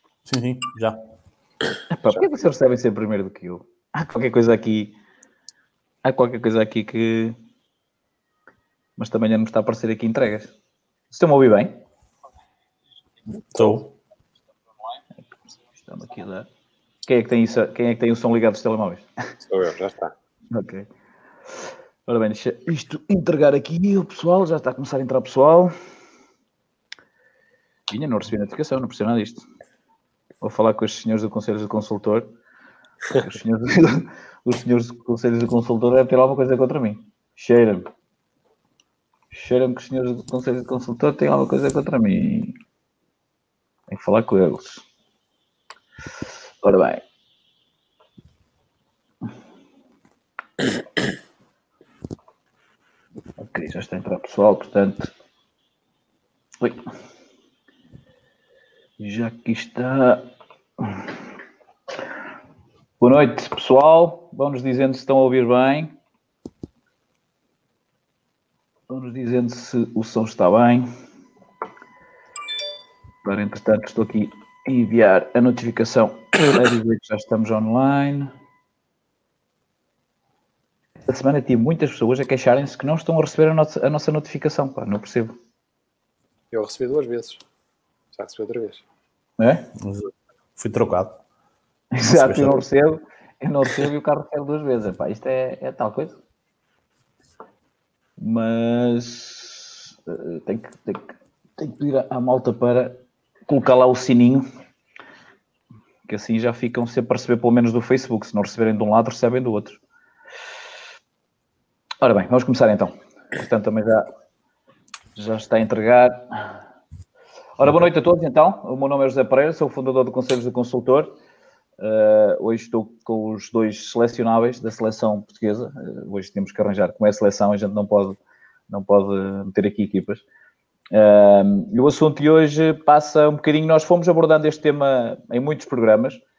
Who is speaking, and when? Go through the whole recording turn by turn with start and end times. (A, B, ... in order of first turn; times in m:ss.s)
0:00.2-0:01.0 A
0:01.9-0:04.9 B
0:06.0-0:07.4 B
0:09.0-0:10.5 B
0:11.1-0:11.8 B
0:13.5-0:13.9 A
0:15.7-0:16.5 B
0:17.0-0:19.1 B
0:19.4-0:20.1 C
0:20.5-0:20.9 B
0:22.1-0:25.7 B
0:27.9-0:29.4 B
0:30.4-0:32.3 B
0:33.1-0:37.9 B
0:39.3-0:42.6 B
0:43.9-0:44.8 B
0:46.6-0:47.0 B
0:53.4-0:55.1 B
0:59.0-1:00.2 B
1:03.0-1:05.9 B
1:08.9-1:10.9 B
1:13.2-1:18.3 B
1:21.1-1:25.3 B
1:26.5-1:27.4 C
1:28.1-1:28.8 C
1:29.4-1:29.7 B
1:29.8-1:31.2 A
1:31.9-1:36.2 B
1:32.1-1:32.6 A
1:38.2-1:44.4 B
1:46.1-1:49.8 B
1:52.0-1:54.1 B
1:55.2-1:56.5 B
1:57.6-2:01.1 B
2:01.8-2:08.2 B
2:08.7-2:10.2 B
2:10.9-2:16.2 B